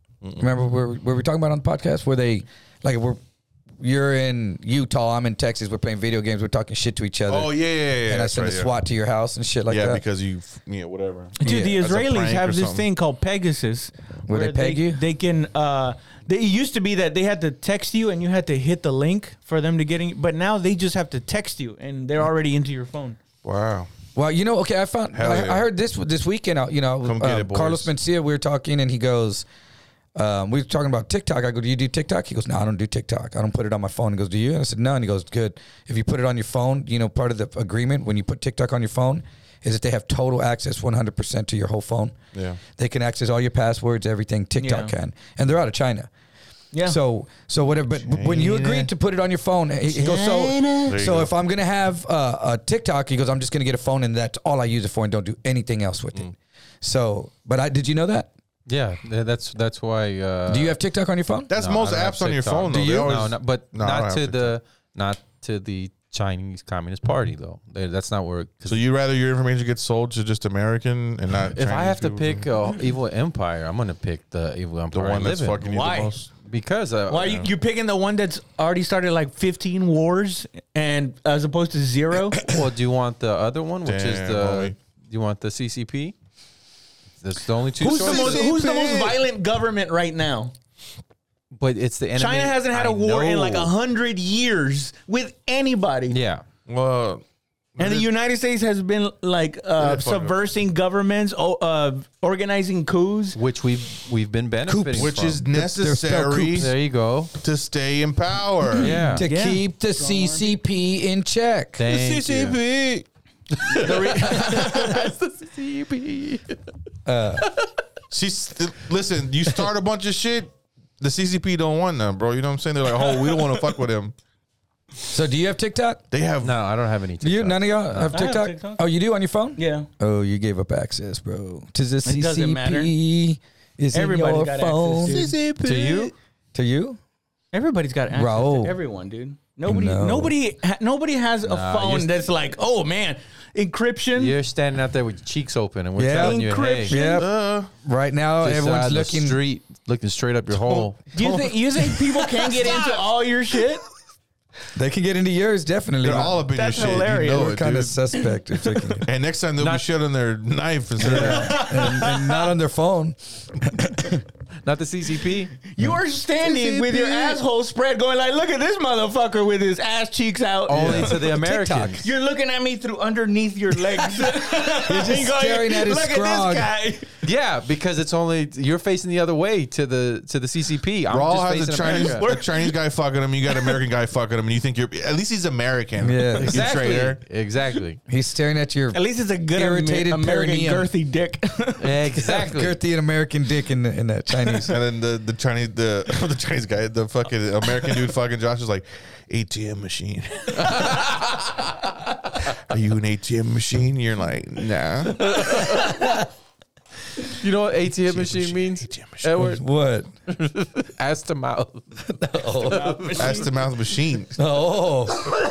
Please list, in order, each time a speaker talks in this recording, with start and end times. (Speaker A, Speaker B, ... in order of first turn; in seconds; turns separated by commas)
Speaker A: 0.4-3.2, Speaker A: 3.8-10.0, Speaker B: 7.3-8.7, Speaker B: 9.7-12.9, Speaker C: 11.4-23.2, Speaker A: 11.4-11.8, Speaker A: 14.3-15.0, Speaker B: 23.4-23.9, Speaker A: 24.1-29.4, Speaker B: 25.1-25.6, Speaker B: 27.0-27.9, Speaker A: 30.1-42.2, Speaker B: 42.3-42.6, Speaker A: 42.7-46.1, Speaker C: 44.6-44.9, Speaker C: 46.7-47.0, Speaker A: 46.8-58.3, Speaker B: 48.1-48.8, Speaker C: 49.9-51.0, Speaker B: 50.9-51.3, Speaker D: 58.7-60.8, Speaker A: 60.5-61.5, Speaker B: 61.5-64.5, Speaker D: 61.5-68.8, Speaker A: 62.7-63.3, Speaker B: 68.6-72.5, Speaker D: 71.5-75.7, Speaker B: 74.9-76.3, Speaker C: 75.6-76.2, Speaker D: 76.4-77.5, Speaker C: 77.1-82.4, Speaker D: 82.5-86.1, Speaker B: 83.8-84.8, Speaker D: 87.2-88.5, Speaker C: 87.8-90.5, Speaker B: 87.9-89.2, Speaker D: 91.5-93.7, Speaker C: 92.2-96.2, Speaker D: 96.1-96.4, Speaker B: 96.7-97.2, Speaker B: 97.8-98.1, Speaker C: 97.8-103.4, Speaker B: 99.8-100.4, Speaker D: 103.3-105.4, Speaker A: 104.7-106.7, Speaker B: 105.0-106.7, Speaker D: 106.5-107.3, Speaker B: 107.4-108.9, Speaker D: 108.8-109.2, Speaker C: 108.9-110.5, Speaker A: 109.2-111.8, Speaker D: 111.8-112.6, Speaker B: 111.9-113.0, Speaker D: 113.7-116.6, Speaker B: 113.8-114.4, Speaker C: 113.8-114.9, Speaker A: 117.0-117.4, Speaker B: 118.1-124.1, Speaker C: 123.0-123.7, Speaker A: 125.1-126.0, Speaker B: 126.1-126.5, Speaker D: 126.4-128.3, Speaker A: 127.2-135.2, Speaker C: 128.1-128.8, Speaker C: 129.6-129.9, Speaker C: 132.0-132.9, Speaker C: 133.9-136.1, Speaker D: 135.6-136.1, Speaker A: 136.5-137.0, Speaker C: 137.5-144.3, Speaker A: 138.1-138.8, Speaker A: 139.6-140.3, Speaker D: 141.4-142.1, Speaker D: 144.1-146.9, Speaker A: 146.0-149.4, Speaker C: 146.2-147.2, Speaker B: 147.2-147.7, Speaker D: 148.4-151.0, Speaker B: 150.7-151.4, Speaker C: 151.1-153.8, Speaker A: 154.7-156.4, Speaker B: 156.0-158.0, Speaker C: 156.4-157.6, Speaker A: 157.0-159.0, Speaker B: 159.0-161.6, Speaker D: 159.6-159.9, Speaker A: 161.0-164.2, Speaker D: 161.0-161.6, Speaker C: 161.3-162.5, Speaker D: 164.6-165.5, Speaker C: 165.7-171.2, Speaker A: 165.8-167.3, Speaker D: 170.7-172.0, Speaker A: 170.7-172.1, Speaker C: 172.0-177.1, Speaker A: 174.8-176.7, Speaker D: 177.2-182.3, Speaker B: 181.1-187.2, Speaker C: 181.8-182.8, Speaker C: 183.4-183.8, Speaker A: 186.0-186.6, Speaker D: 186.4-188.0, Speaker A: 188.1-189.0, Speaker C: 188.9-191.9, Speaker A: 189.5-190.9, Speaker D: 191.8-192.7, Speaker A: 192.2-194.8, Speaker B: 194.7-201.1, Speaker D: 200.6-201.4, Speaker B: 202.5-205.6, Speaker D: 205.2-205.9, Speaker D: 207.4-209.6, Speaker B: 208.0-209.3, Speaker A: 209.4-210.1, Speaker D: 210.3-211.8, Speaker A: 212.1-212.9, Speaker C: 212.6-213.7, Speaker D: 212.6-213.4, Speaker B: 213.2-214.4, Speaker A: 214.4-215.2